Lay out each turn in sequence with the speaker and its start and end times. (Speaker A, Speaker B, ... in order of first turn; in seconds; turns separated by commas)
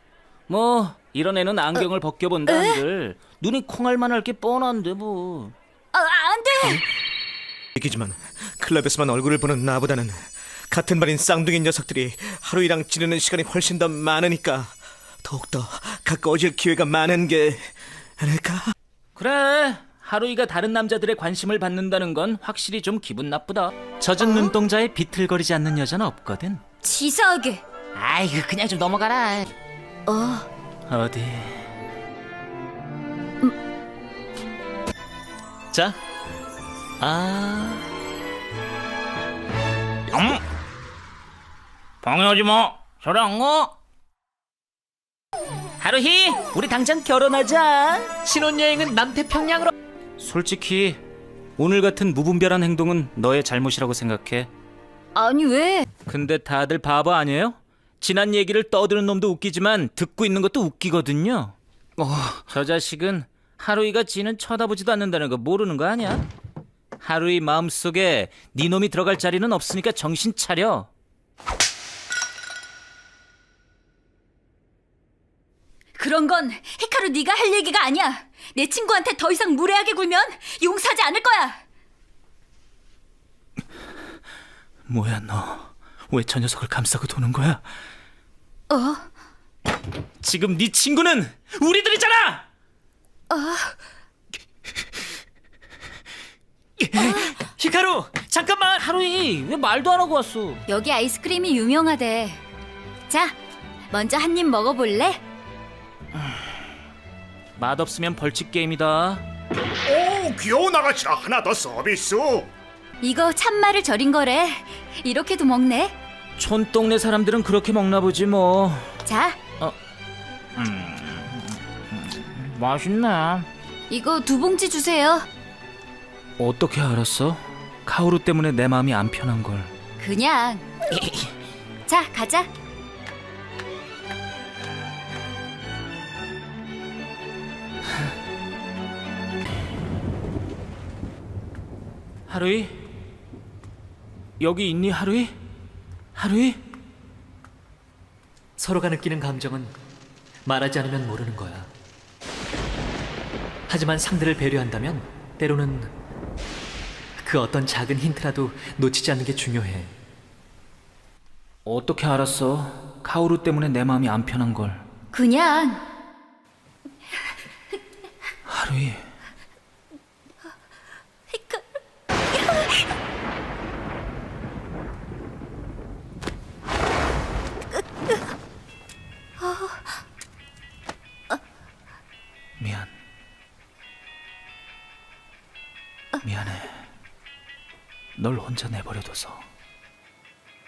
Speaker A: 0.5-5.5, Speaker B: 2.5-2.8, Speaker B: 5.9-6.8, Speaker C: 7.7-18.7, Speaker A: 19.1-26.6, Speaker B: 26.8-27.6, Speaker A: 27.9-29.5, Speaker B: 30.1-30.5, Speaker A: 30.9-31.7, Speaker A: 35.7-36.0, Speaker A: 37.0-37.8, Speaker A: 40.1-40.4, Speaker A: 42.0-43.7, Speaker A: 45.8-48.2, Speaker D: 48.2-49.7, Speaker A: 50.2-51.0, Speaker A: 51.6-54.5, Speaker B: 55.1-55.9, Speaker A: 56.1-61.5, Speaker A: 62.3-66.3, Speaker A: 67.0-70.9, Speaker B: 76.0-81.6, Speaker A: 84.9-87.6, Speaker B: 88.7-89.0, Speaker A: 90.2-92.4, Speaker B: 93.3-93.8, Speaker D: 96.9-98.8, Speaker B: 96.9-97.4, Speaker A: 98.7-100.6, Speaker B: 100.7-102.4, Speaker B: 103.1-103.3, Speaker B: 103.9-105.2, Speaker A: 107.6-109.2, Speaker E: 109.9-112.4, Speaker B: 113.0-115.9, Speaker A: 116.4-119.0, Speaker B: 119.0-119.4, Speaker A: 120.6-123.5, Speaker B: 123.9-125.2, Speaker A: 126.4-129.7, Speaker B: 130.0-130.6, Speaker B: 131.8-132.5, Speaker A: 142.3-142.8, Speaker A: 144.4-145.4, Speaker A: 146.1-146.6, Speaker D: 148.6-149.7, Speaker D: 150.4-151.7, Speaker D: 153.7-155.9, Speaker D: 157.2-159.9, Speaker A: 161.7-164.8, Speaker B: 165.1-165.8, Speaker A: 168.5-169.0, Speaker B: 171.3-171.6, Speaker B: 179.4-179.8, Speaker A: 182.6-182.9, Speaker A: 186.2-186.8, Speaker A: 188.2-189.4